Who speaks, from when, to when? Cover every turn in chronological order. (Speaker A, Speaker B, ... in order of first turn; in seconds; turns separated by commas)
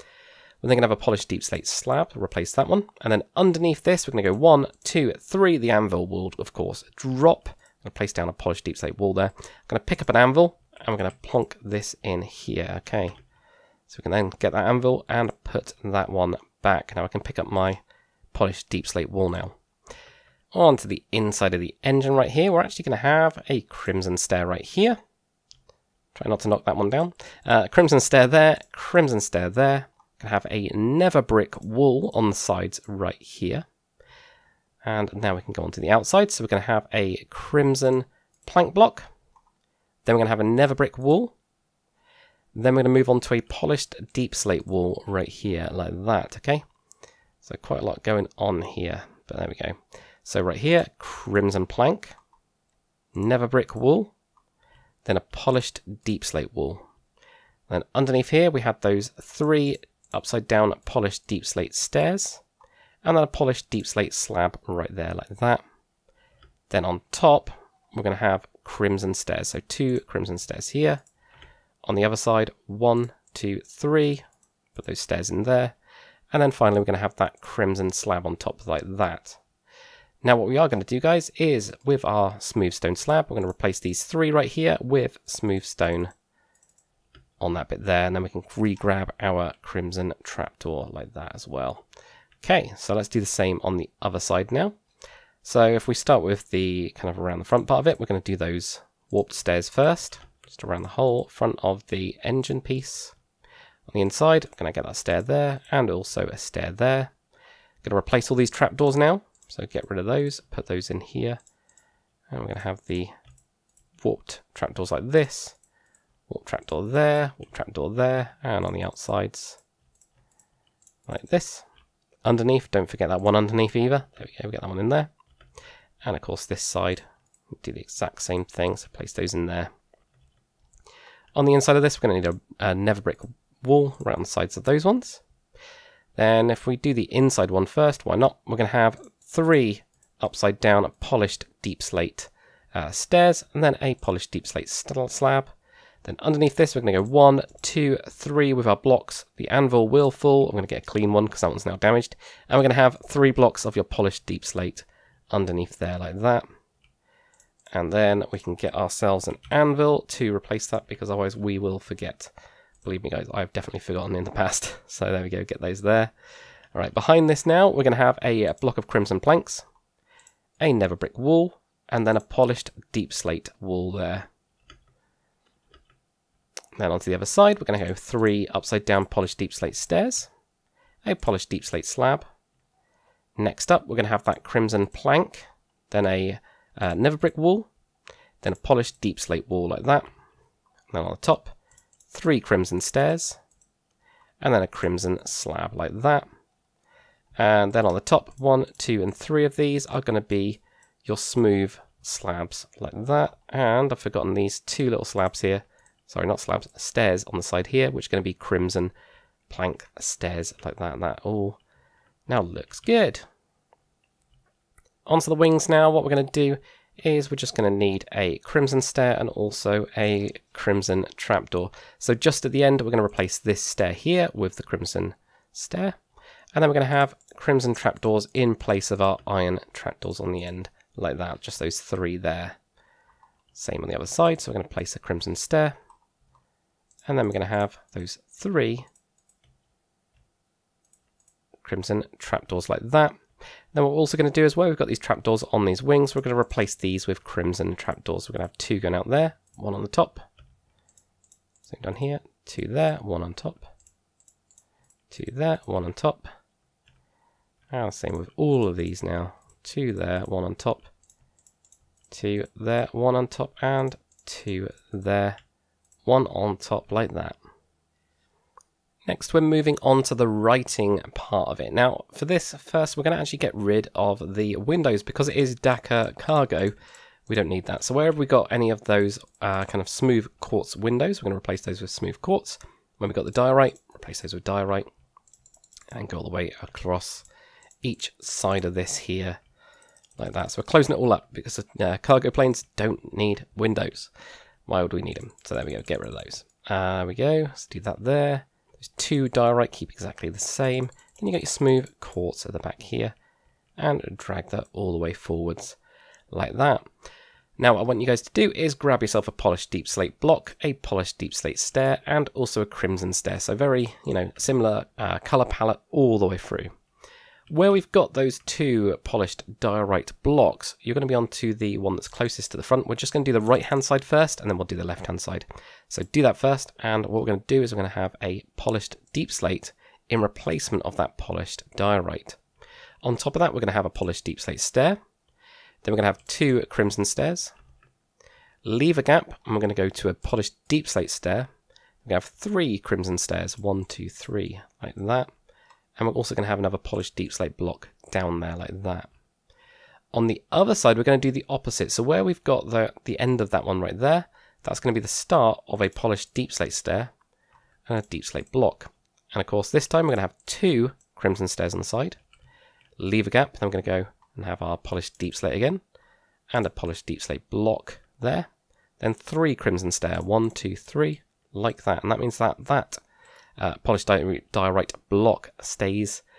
Speaker A: 0.6-13.1, Speaker A: 13.9-17.8, Speaker A: 18.3-19.6, Speaker A: 20.5-25.0, Speaker A: 26.1-33.6, Speaker A: 34.8-39.1, Speaker A: 40.0-41.3, Speaker A: 42.5-46.6, Speaker A: 47.4-52.1, Speaker A: 53.1-54.1, Speaker A: 55.0-56.9, Speaker A: 57.7-62.4, Speaker A: 63.0-65.6, Speaker A: 66.7-71.0, Speaker A: 71.8-74.2, Speaker A: 74.7-75.7, Speaker A: 76.3-79.4, Speaker A: 80.2-86.1, Speaker A: 87.4-91.8, Speaker A: 92.4-94.8, Speaker A: 95.4-103.1, Speaker A: 103.9-107.1, Speaker A: 107.8-111.4, Speaker A: 112.3-113.1, Speaker A: 114.0-115.5, Speaker A: 116.3-119.6, Speaker A: 121.1-121.7, Speaker A: 122.2-125.1, Speaker A: 126.0-127.0, Speaker A: 127.6-129.7, Speaker A: 131.3-135.2, Speaker A: 136.2-145.5, Speaker A: 146.0-156.4, Speaker A: 157.7-162.3, Speaker A: 162.8-166.1, Speaker A: 166.7-169.6, Speaker A: 170.6-174.3, Speaker A: 176.8-180.3, Speaker A: 181.0-182.2, Speaker A: 183.4-187.7, Speaker A: 188.4-190.1, Speaker A: 190.9-191.5, Speaker A: 192.1-193.4, Speaker A: 194.4-196.2, Speaker A: 197.4-208.9, Speaker A: 209.5-211.6, Speaker A: 212.3-213.2, Speaker A: 215.1-226.0, Speaker A: 226.5-232.6, Speaker A: 233.5-235.7, Speaker A: 237.1-238.8, Speaker A: 241.6-243.2, Speaker A: 243.7-250.2, Speaker A: 251.7-253.7, Speaker A: 255.1-256.3, Speaker A: 257.7-260.9, Speaker A: 262.1-265.4, Speaker A: 266.0-267.4, Speaker A: 269.1-276.7, Speaker A: 277.3-284.9, Speaker A: 285.9-287.2, Speaker A: 287.8-289.4, Speaker A: 290.2-294.1, Speaker A: 294.7-303.1, Speaker A: 303.8-305.8, Speaker A: 306.3-306.9, Speaker A: 307.6-316.7, Speaker A: 317.5-332.4, Speaker A: 333.0-335.0, Speaker A: 335.8-337.5, Speaker A: 338.6-341.5, Speaker A: 342.0-345.3, Speaker A: 346.0-349.1, Speaker A: 350.1-357.1, Speaker A: 357.9-362.2, Speaker A: 363.0-365.8, Speaker A: 366.5-368.5, Speaker A: 369.0-373.0, Speaker A: 373.6-376.2